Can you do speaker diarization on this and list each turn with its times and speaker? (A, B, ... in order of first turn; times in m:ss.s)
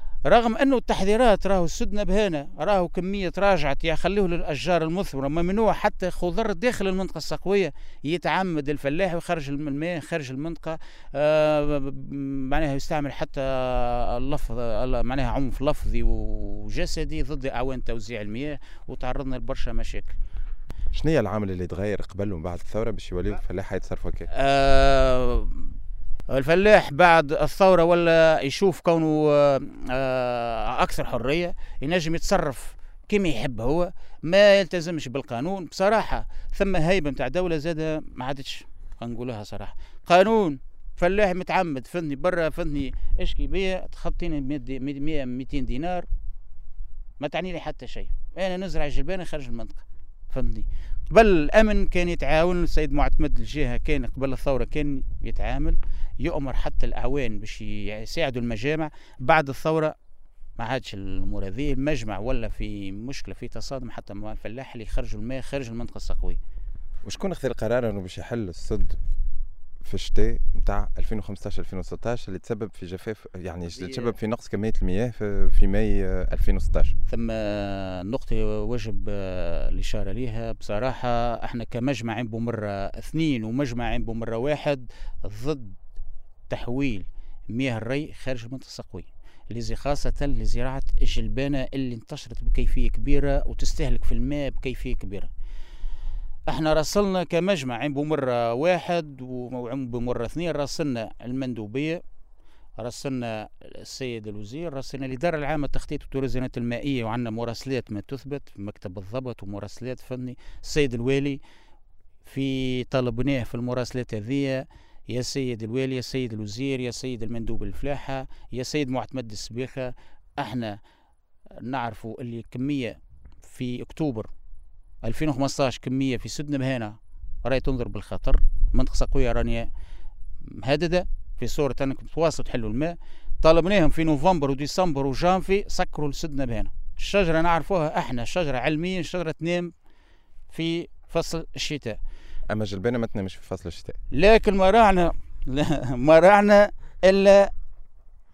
0:00.2-0:20.2 A
0:20.9-0:24.3 B
0:24.3-0:25.7 A
0:26.3-0:46.0 A
0:47.2-0:59.9 A
1:00.6-1:06.4 A
1:07.0-1:09.0 B
1:09.8-1:17.0 B
1:13.7-1:14.1 A
1:17.1-1:25.8 A
1:26.5-1:35.3 A
1:36.5-1:42.0 A
1:42.8-1:51.4 A
1:52.2-2:00.8 A
2:01.6-2:04.3 A
2:05.0-2:09.7 A
2:10.5-2:19.7 A
2:20.5-2:22.0 A
2:22.5-2:24.0 B
2:24.1-2:27.5 A